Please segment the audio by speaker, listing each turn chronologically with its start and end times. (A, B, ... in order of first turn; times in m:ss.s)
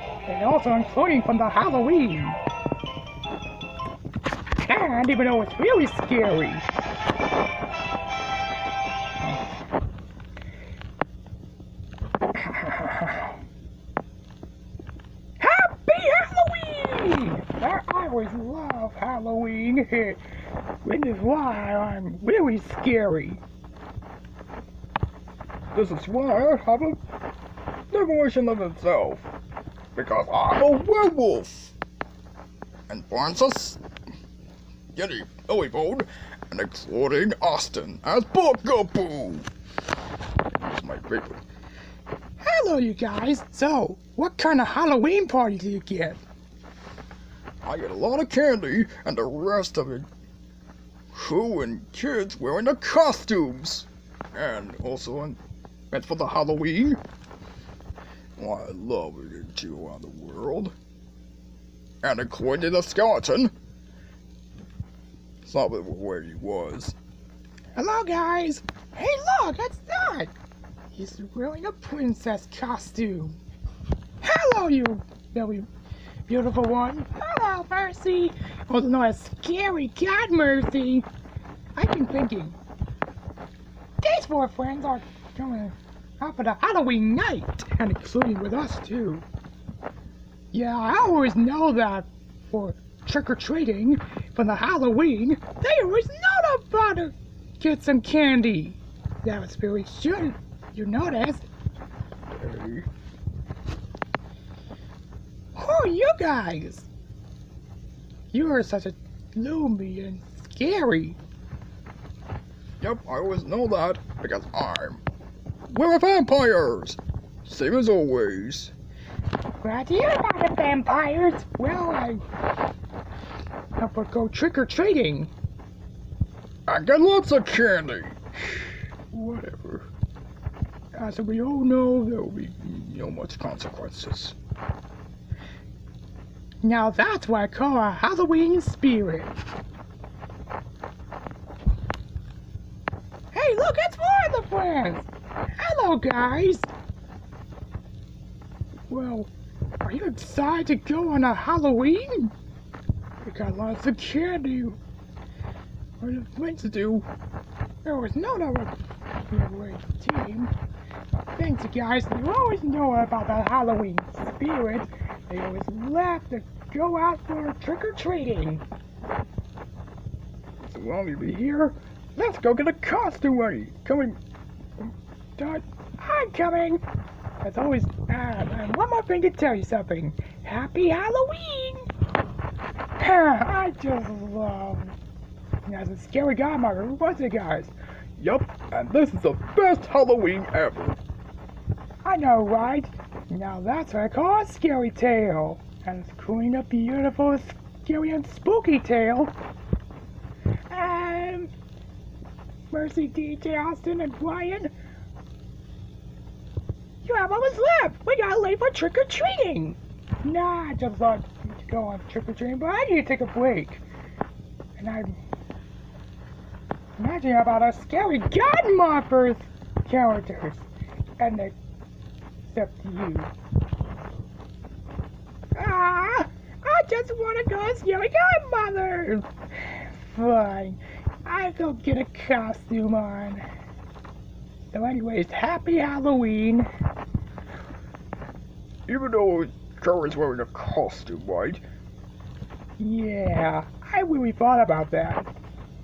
0:00.2-0:02.4 A
0:04.6-0:06.6 A
0:12.4-0:13.3 A
0:15.4-0:20.2 A
0:20.8-0:23.4 A
0:25.7-0:27.0 B
0:27.9-0:29.2 B
0:29.9-0:31.7 B
0:32.9-0:33.8 B
0:34.9-0:39.5 B
0:40.5-0:41.4 B
0:42.4-0:46.2 A
0:47.6-0:50.1 B
0:51.1-0:55.4 B
0:55.9-0:57.0 B
0:58.4-1:00.7 B
1:02.0-1:03.5 B
1:05.4-1:07.0 B
1:07.8-1:10.3 A
1:10.9-1:13.4 A
1:14.2-1:15.7 A
1:16.3-1:21.1 A
1:21.7-1:22.6 A
1:24.0-1:29.2 A
1:30.5-1:41.4 A
1:42.3-1:42.9 B
1:45.5-1:46.9 A
1:48.3-1:51.2 A
1:52.8-1:55.0 B
1:55.7-1:58.7 B
1:59.6-2:02.2 A
2:03.8-2:05.3 A
2:06.7-2:08.2 B
2:09.1-2:09.8 B
2:11.0-2:13.2 A
2:13.2-2:14.3 B
2:16.6-2:19.3 A
2:23.3-2:25.1 A
2:25.6-2:26.7 A
2:28.9-2:29.3 A
2:29.8-2:32.3 A
2:33.2-2:34.8 A
2:36.0-2:37.1 A
2:37.8-2:38.7 A
2:39.3-2:40.5 A
2:41.3-2:48.6 A
2:50.6-2:51.7 B
2:52.2-2:52.7 A
2:52.7-2:54.2 B
2:55.4-2:56.8 A
2:57.4-3:01.9 A
3:03.0-3:05.0 A
3:05.6-3:07.7 A
3:08.2-3:11.0 B
3:12.0-3:19.3 A
3:20.7-3:21.5 A
3:22.7-3:24.7 A
3:27.0-3:33.8 A
3:34.8-3:35.2 A
3:37.0-3:40.6 A
3:41.2-3:41.5 A
3:42.5-3:43.3 A
3:45.5-3:53.4 A
3:54.7-3:56.7 A
3:58.9-4:01.6 B
4:02.8-4:05.3 A